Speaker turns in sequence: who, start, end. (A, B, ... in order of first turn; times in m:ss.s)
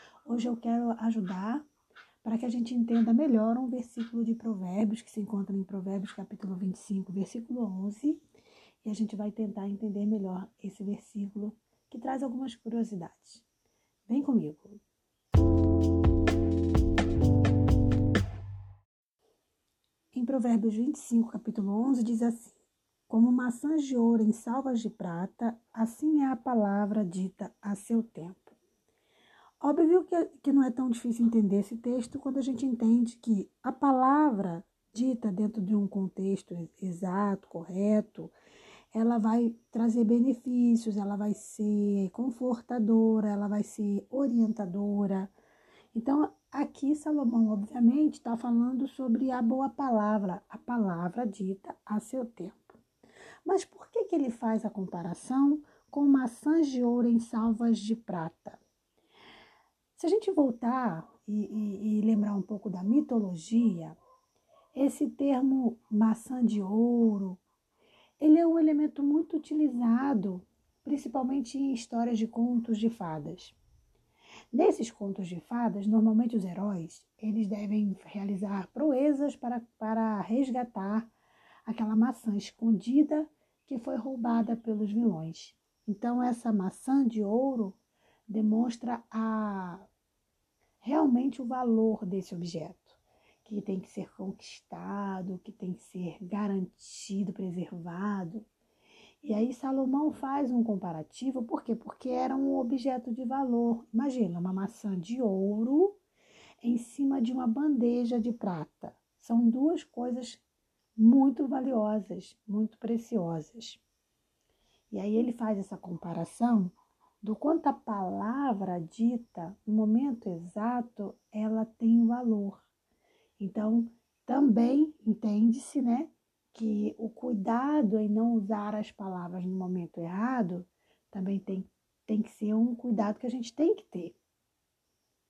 0:00.2-0:01.6 A
0:02.2-0:08.2 A
0:08.8-0:13.4 A
0:14.1-0:14.8 A
0:20.1-0:22.6 A
0:23.1-0:28.6 A
0:29.6-0:38.3 A
0:38.9-0:45.3 A
0:45.9-0:52.8 A
0:53.4-0:58.6 A
1:00.0-1:04.0 A
1:04.7-1:07.4 A
1:08.2-1:13.6 A
1:14.5-1:21.1 A
1:21.7-1:27.8 A
1:28.3-1:29.9 A
1:30.8-1:38.5 A
1:39.2-1:46.0 A
1:46.6-1:50.4 A
1:51.0-1:53.8 A
1:54.9-2:02.6 A
2:03.4-2:14.2 A